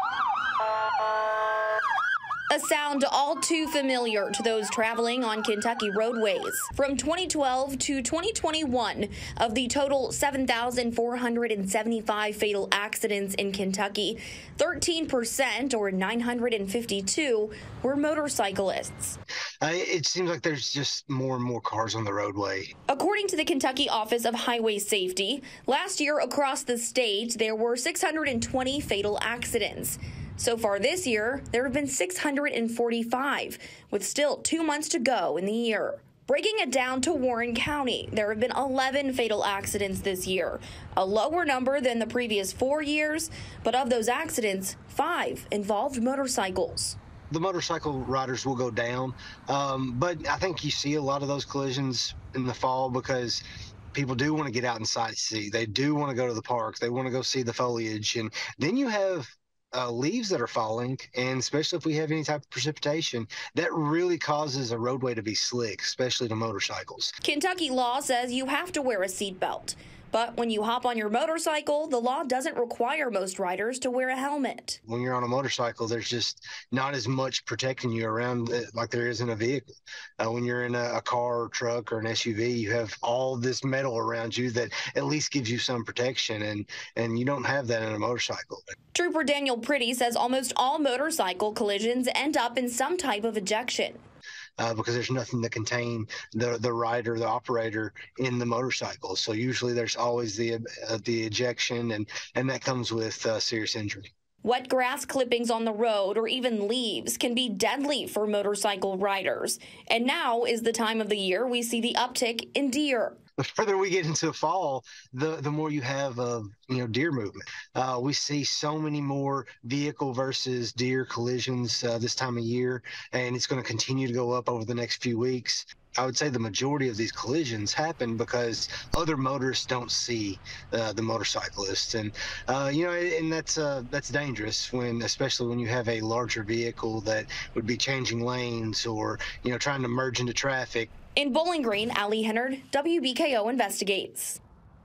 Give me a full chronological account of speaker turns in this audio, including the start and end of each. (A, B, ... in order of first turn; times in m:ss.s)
0:02.5-0:19.2 A
0:19.6-0:22.7 B
0:22.9-0:47.0 A
0:47.3-0:53.4 B
0:53.9-1:07.1 B
1:07.2-1:14.8 A
1:14.9-1:28.6 B
1:28.9-1:34.0 A
1:34.6-1:44.1 B
1:44.4-1:53.2 A
1:53.4-2:20.9 B
2:21.2-2:24.4 A